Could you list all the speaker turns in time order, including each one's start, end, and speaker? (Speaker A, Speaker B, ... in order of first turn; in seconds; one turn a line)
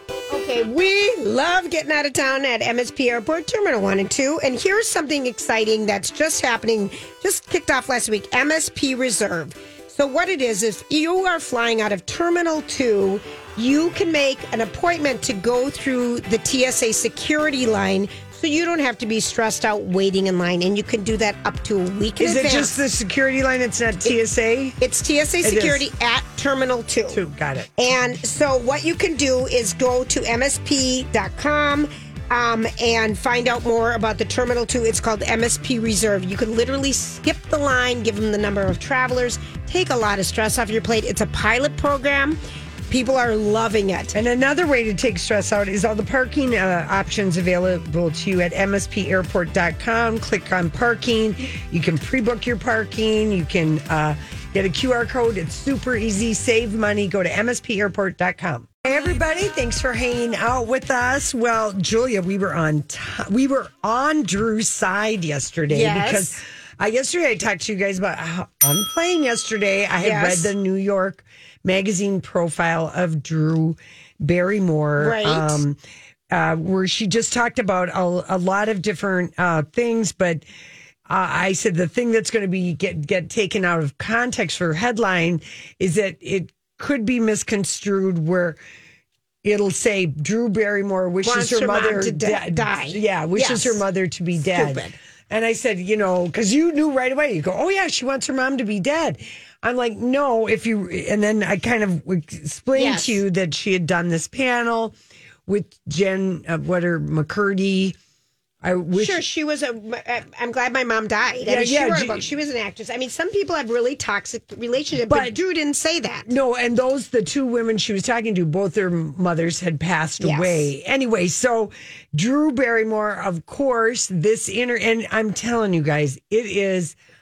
Speaker A: 0.3-22.8
Speaker B: 22.2-24.8
Speaker A: 24.8-27.2
Speaker B: 25.4-25.8
Speaker B: 27.1-27.7
Speaker A: 27.8-42.4
Speaker A: 42.9-44.1
Speaker B: 44.1-75.8
Speaker A: 65.7-66.4
Speaker A: 70.0-70.5
Speaker A: 75.0-75.6
Speaker B: 76.3-80.4
Speaker B: 81.1-88.6
Speaker B: 89.4-105.0
Speaker A: 91.2-93.8
Speaker A: 94.4-95.0
Speaker A: 102.7-103.2
Speaker B: 105.5-108.0
Speaker B: 108.6-109.2
Speaker A: 108.9-116.3
Speaker B: 111.4-112.2
Speaker B: 115.1-115.4
Speaker B: 116.2-127.0
Speaker A: 120.2-120.7